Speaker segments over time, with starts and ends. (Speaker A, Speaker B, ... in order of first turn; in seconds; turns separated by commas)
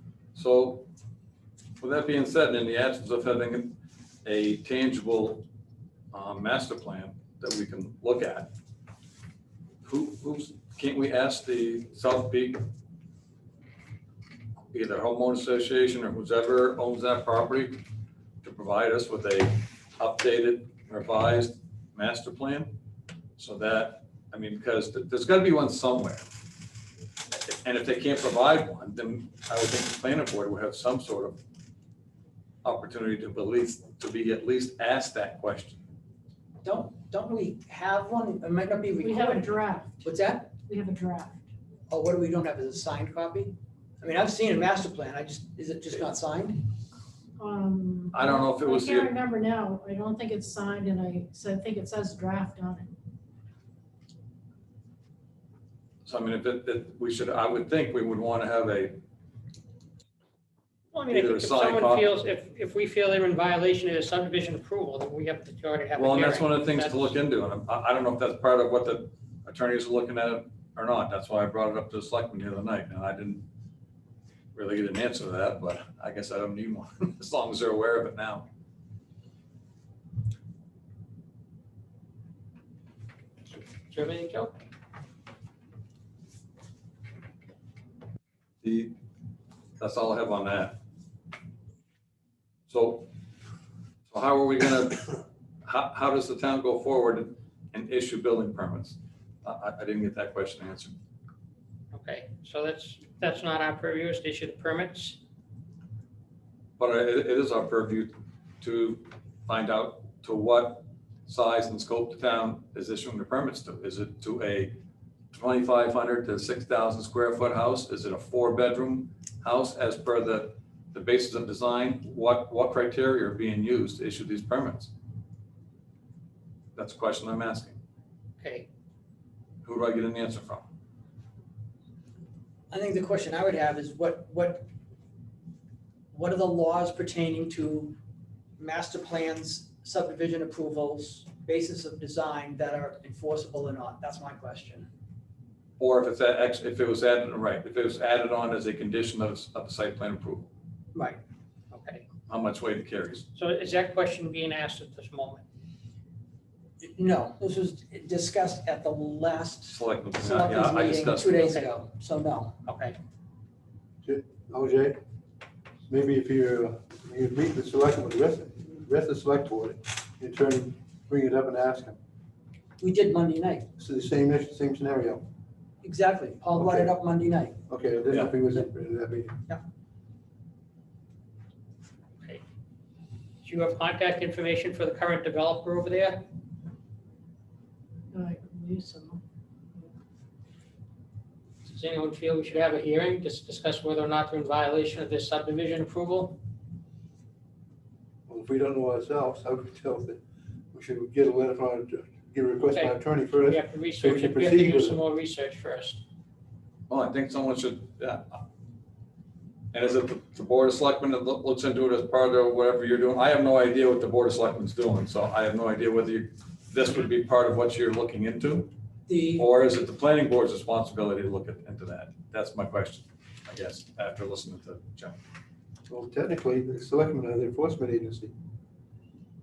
Speaker A: 0.3-0.9, Speaker A: 1.8-5.5, Speaker A: 6.1-8.5, Speaker A: 9.8-12.6, Speaker A: 14.7-17.8, Speaker A: 18.4-22.7, Speaker A: 23.4-26.2, Speaker A: 27.3-31.4, Speaker A: 32.6-35.8, Speaker B: 36.6-40.5, Speaker C: 39.0-41.4, Speaker B: 41.9-46.6, Speaker C: 47.4-52.9, Speaker A: 48.1-49.1, Speaker A: 56.0-59.0, Speaker D: 60.9-67.2, Speaker A: 61.1-62.1, Speaker A: 65.9-73.5, Speaker A: 74.5-78.5, Speaker D: 83.4-84.5, Speaker A: 88.6-88.9, Speaker A: 89.8-90.8, Speaker A: 92.7-93.1, Speaker A: 94.1-100.9, Speaker D: 101.9-105.2, Speaker A: 106.8-114.8, Speaker A: 115.3-124.9, Speaker A: 126.7-127.8, Speaker D: 128.4-128.7, Speaker A: 129.6-130.6, Speaker B: 132.7-134.7, Speaker B: 136.1-137.9, Speaker B: 138.6-144.9, Speaker A: 145.8-150.5, Speaker B: 150.9-151.2, Speaker D: 151.7-152.0, Speaker A: 152.3-153.3, Speaker D: 153.3-155.4, Speaker B: 156.8-162.5, Speaker A: 159.7-161.5, Speaker D: 161.4-161.8, Speaker D: 162.7-162.9, Speaker E: 164.0-165.0, Speaker E: 165.9-172.0, Speaker B: 172.8-173.7, Speaker E: 173.8-175.2, Speaker B: 175.8-177.6, Speaker E: 176.6-176.9, Speaker E: 177.7-179.4, Speaker D: 183.4-186.3, Speaker C: 188.1-189.2, Speaker D: 191.7-196.4, Speaker E: 198.3-200.2, Speaker E: 200.7-205.0, Speaker D: 202.7-206.0, Speaker A: 206.9-208.4, Speaker A: 209.7-218.7, Speaker B: 219.1-219.5, Speaker A: 219.3-225.2, Speaker E: 225.9-228.3